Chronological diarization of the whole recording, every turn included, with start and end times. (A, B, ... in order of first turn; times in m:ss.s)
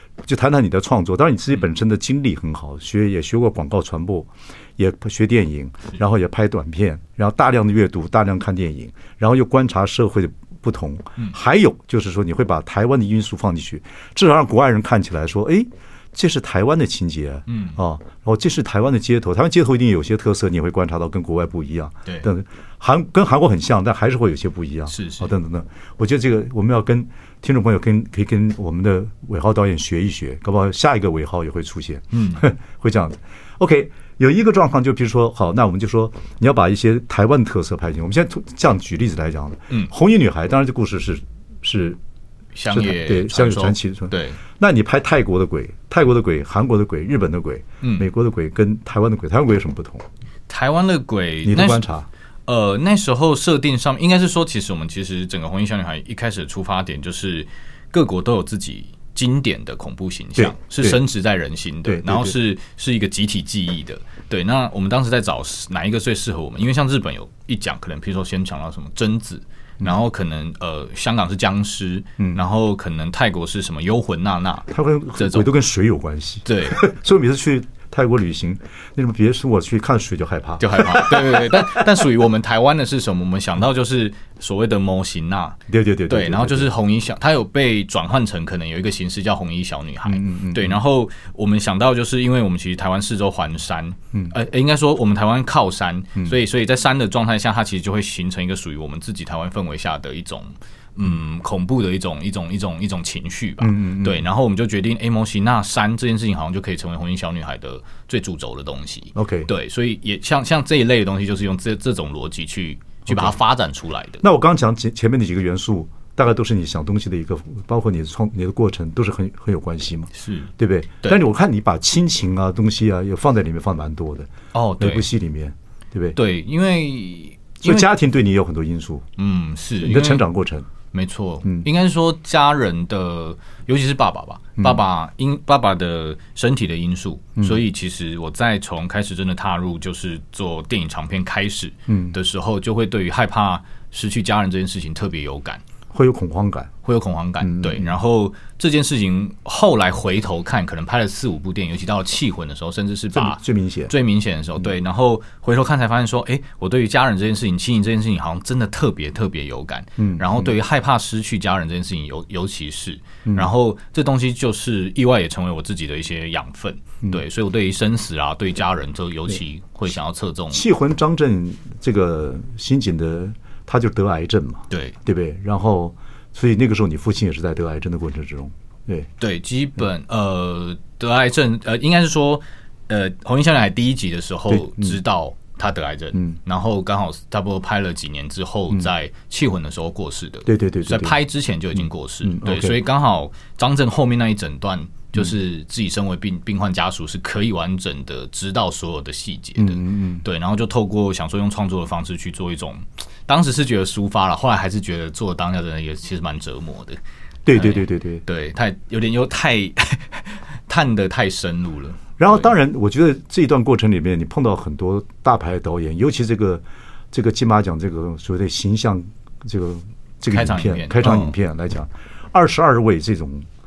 0:00.2-0:42.0 A
0:17.5-0:17.8 B
0:24.9-0:25.3 B
0:32.1-0:32.4 B
0:42.5-0:44.4 B
0:42.7-0:50.0 A
0:47.8-0:48.1 B
0:50.5-0:51.8 B
0:51.4-0:52.1 A
0:52.5-1:15.5 B
1:00.4-1:01.0 A
1:01.8-1:02.3 A
1:14.7-1:22.0 A
1:16.4-1:16.8 B
1:20.6-1:54.2 B
1:25.7-1:26.7 A
1:30.0-1:30.8 A
1:43.6-1:44.2 A
1:49.1-1:49.5 A
1:53.0-1:53.4 A
1:54.2-2:06.2 A
2:00.1-2:00.5 B
2:04.5-2:05.1 B
2:06.1-2:07.9 B
2:07.6-2:09.0 A
2:09.2-2:10.2 B
2:09.8-2:10.7 A
2:10.9-2:25.6 B
2:21.9-2:22.1 A
2:25.9-2:26.7 A
2:26.8-2:50.6 B
2:27.4-2:27.9 A
2:33.1-2:33.9 A
2:40.0-2:40.5 A
2:50.5-2:59.1 A
2:54.7-2:55.0 B
2:59.2-3:27.0 B
3:04.5-3:05.0 A
3:10.4-3:11.2 A
3:12.2-3:12.8 A
3:19.6-3:20.2 A
3:27.4-3:28.2 A
3:27.5-3:32.5 B
3:32.2-3:43.5 A
3:40.3-3:41.3 B